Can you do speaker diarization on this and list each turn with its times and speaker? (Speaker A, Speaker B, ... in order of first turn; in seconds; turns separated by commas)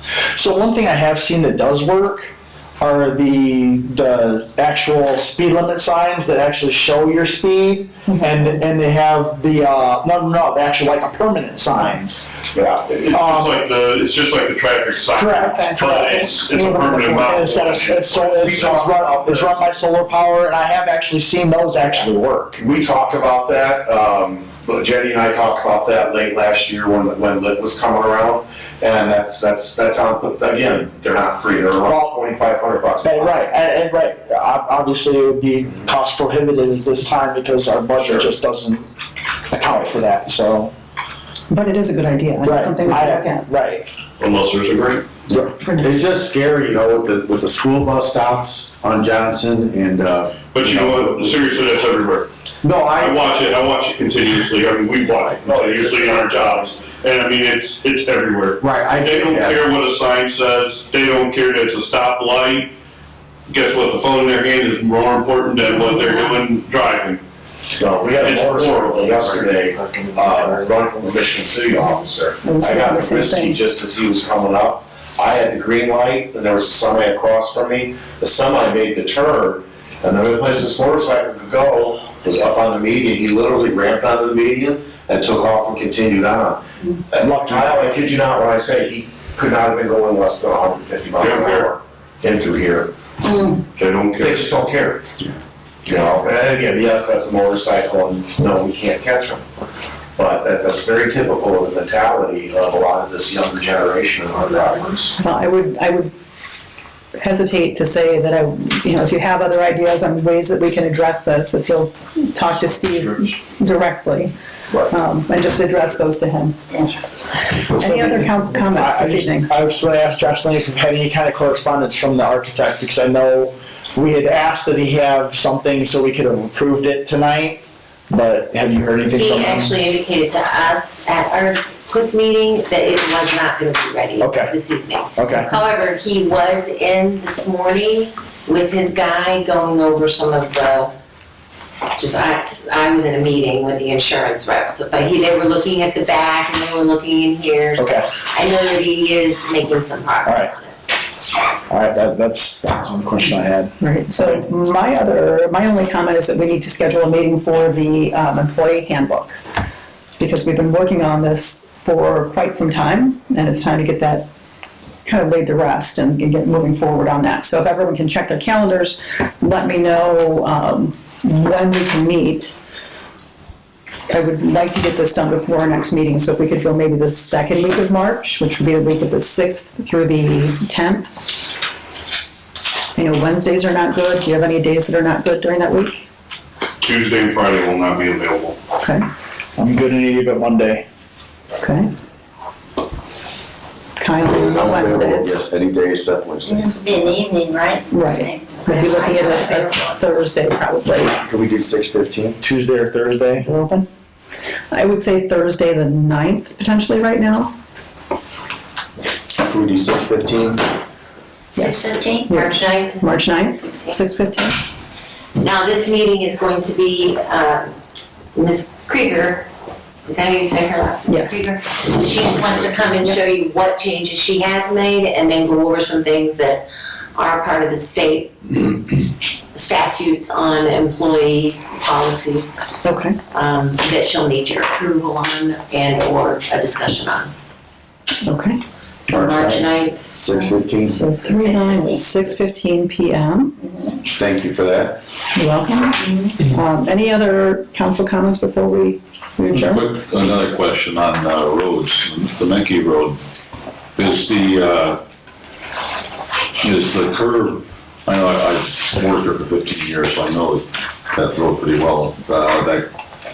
Speaker A: 0.3-12.2, Speaker B: 8.1-8.3, Speaker C: 12.5-12.9, Speaker D: 12.9-19.0, Speaker A: 13.1-13.6, Speaker A: 15.1-15.6, Speaker B: 15.5-17.3, Speaker A: 17.2-22.6, Speaker C: 18.4-19.4, Speaker C: 22.6-33.4, Speaker A: 33.0-38.9, Speaker C: 38.0-38.3, Speaker A: 39.5-40.7, Speaker B: 41.5-43.4, Speaker A: 42.4-43.9, Speaker D: 44.2-45.1, Speaker E: 45.3-51.6, Speaker D: 50.5-52.3, Speaker E: 52.6-53.3, Speaker D: 52.9-62.7, Speaker C: 55.4-56.8, Speaker E: 58.6-59.7, Speaker D: 63.5-67.2, Speaker C: 67.8-92.9, Speaker D: 68.2-69.5, Speaker B: 72.4-73.6, Speaker A: 87.2-87.7, Speaker D: 91.2-91.7, Speaker D: 93.7-94.6, Speaker C: 94.2-95.0, Speaker C: 95.8-99.4, Speaker C: 100.2-105.2, Speaker B: 105.2-106.1, Speaker B: 107.2-114.3, Speaker B: 114.9-119.5, Speaker A: 117.8-129.7, Speaker F: 129.1-140.9, Speaker A: 134.2-134.6, Speaker A: 135.2-135.5, Speaker F: 141.9-150.7, Speaker A: 147.8-148.1, Speaker A: 150.2-150.5, Speaker A: 151.7-154.4, Speaker B: 153.8-159.4, Speaker B: 160.2-164.3, Speaker B: 165.0-172.6, Speaker B: 174.1-181.1, Speaker B: 182.9-186.0, Speaker D: 186.8-188.6, Speaker B: 188.8-189.0, Speaker A: 189.6-190.8, Speaker B: 191.6-191.9, Speaker B: 194.0-195.4, Speaker E: 194.2-197.3, Speaker G: 196.4-199.9, Speaker B: 197.9-201.1, Speaker E: 201.0-202.4, Speaker A: 202.4-203.4, Speaker B: 203.4-203.8, Speaker B: 204.7-207.5, Speaker E: 209.4-210.7, Speaker F: 211.5-214.0, Speaker B: 211.5-214.6, Speaker G: 212.0-212.2, Speaker F: 215.4-217.7, Speaker F: 218.3-219.5, Speaker F: 220.0-228.7, Speaker B: 221.1-221.4, Speaker F: 229.5-232.5, Speaker B: 232.8-233.2, Speaker F: 233.3-237.3, Speaker B: 238.2-238.6, Speaker F: 239.0-240.6, Speaker E: 239.1-241.1, Speaker B: 240.8-243.5, Speaker F: 241.2-242.1, Speaker G: 243.6-243.9, Speaker E: 244.1-245.0, Speaker B: 245.3-249.9, Speaker G: 246.0-246.4, Speaker H: 249.5-253.2, Speaker H: 253.9-255.0, Speaker H: 256.6-262.9